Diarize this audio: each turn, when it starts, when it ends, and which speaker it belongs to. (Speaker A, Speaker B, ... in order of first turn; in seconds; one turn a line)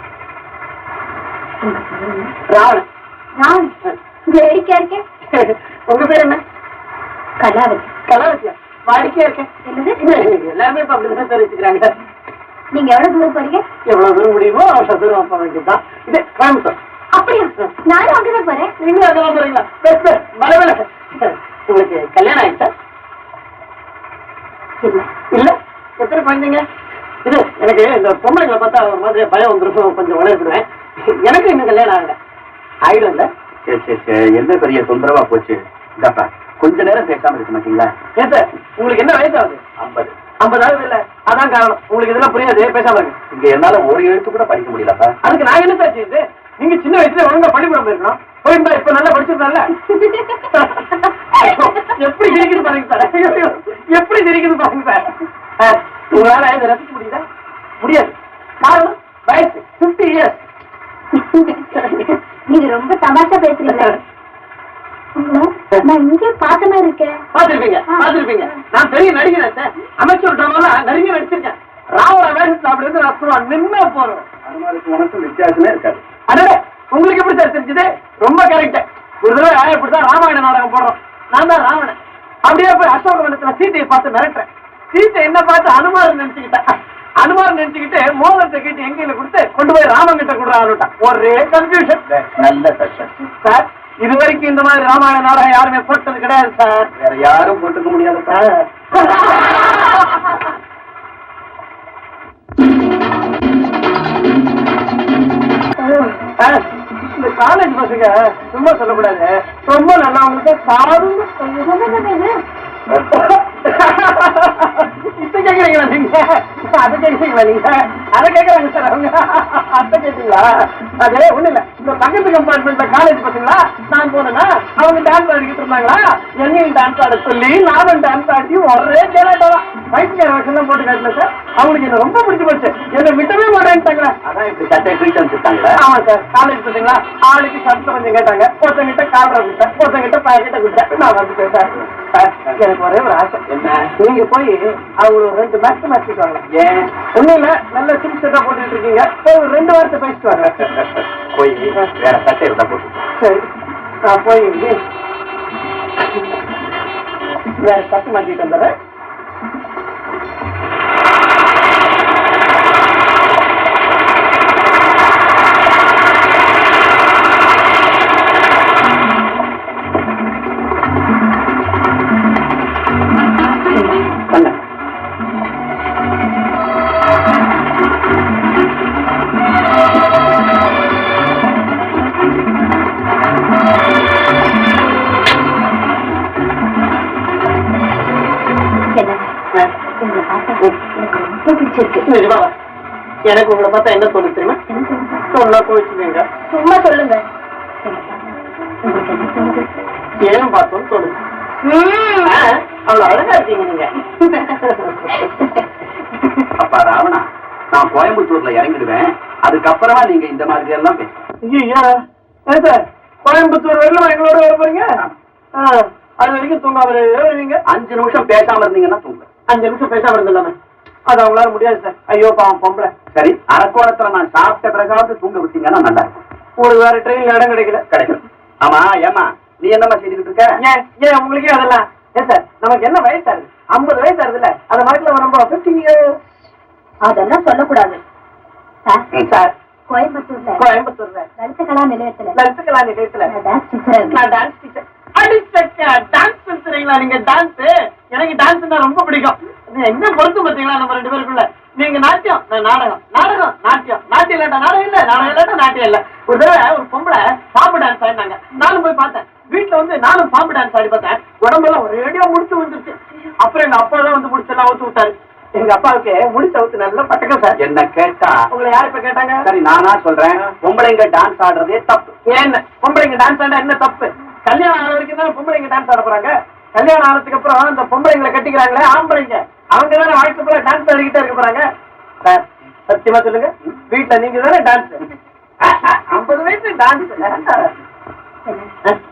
Speaker A: 1.6-2.3
Speaker B: 2.5-2.8
Speaker A: 3.4-3.7
Speaker A: 4.3-5.0
Speaker B: 5.3-6.4
Speaker A: 7.4-7.9
Speaker B: 8.1-9.5
Speaker A: 9.6-10.0
Speaker B: 10.0-11.9
Speaker A: 12.7-13.6
Speaker B: 13.9-16.8
Speaker A: 17.1-18.7
Speaker B: 18.8-22.7
Speaker A: 24.8-25.1
Speaker B: 25.3-26.6
Speaker B: 27.2-30.6
Speaker B: 31.2-32.1
Speaker B: 32.8-33.3
Speaker C: 33.7-37.9
Speaker B: 38.1-39.6
Speaker C: 39.8-40.1
Speaker B: 40.4-43.1
Speaker C: 43.3-45.1
Speaker B: 45.2-49.7
Speaker A: 49.8-50.5
Speaker B: 50.5-57.2
Speaker B: 57.8-60.4
Speaker A: 61.1-64.0
Speaker A: 65.2-67.2
Speaker B: 67.3-74.2
Speaker A: 67.9-68.2
Speaker C: 74.4-76.0
Speaker B: 76.3-86.6
Speaker B: 87.2-92.3
Speaker C: 92.4-93.2
Speaker B: 93.4-96.9
Speaker C: 97.0-98.4
Speaker B: 98.3-100.3
Speaker B: 105.8-111.4
Speaker A: 111.4-112.3
Speaker B: 112.9-134.2
Speaker C: 134.2-135.8
Speaker B: 135.8-143.4
Speaker C: 143.5-143.9
Speaker B: 144.0-146.4
Speaker C: 146.5-146.9
Speaker B: 147.1-150.6
Speaker C: 150.6-153.0
Speaker B: 153.2-153.5
Speaker B: 154.1-154.8
Speaker B: 157.6-158.7
Speaker A: 188.9-189.3
Speaker A: 190.0-192.1
Speaker B: 192.1-192.5
Speaker B: 193.2-194.6
Speaker A: 194.7-195.3
Speaker B: 195.3-196.2
Speaker A: 196.5-197.2
Speaker A: 197.8-199.8
Speaker B: 200.2-201.2
Speaker A: 201.6-202.4
Speaker B: 202.2-205.2
Speaker A: 205.1-206.4
Speaker C: 206.6-211.2
Speaker B: 211.4-211.9
Speaker B: 212.5-214.9
Speaker B: 215.6-217.6
Speaker C: 217.7-219.2
Speaker B: 219.5-220.5
Speaker B: 221.1-222.9
Speaker C: 223.1-226.2
Speaker B: 226.6-227.8
Speaker C: 227.9-230.5
Speaker B: 230.6-236.0
Speaker A: 237.0-238.0
Speaker B: 239.2-239.5
Speaker A: 239.9-240.7
Speaker B: 240.6-241.3
Speaker A: 241.4-242.4
Speaker B: 242.4-243.3
Speaker A: 243.2-244.2
Speaker B: 244.1-267.6
Speaker C: 267.6-268.4
Speaker B: 268.5-269.4
Speaker C: 269.4-272.1
Speaker B: 272.3-281.6
Speaker B: 282.2-285.0
Speaker B: 285.6-287.7
Speaker A: 288.4-288.7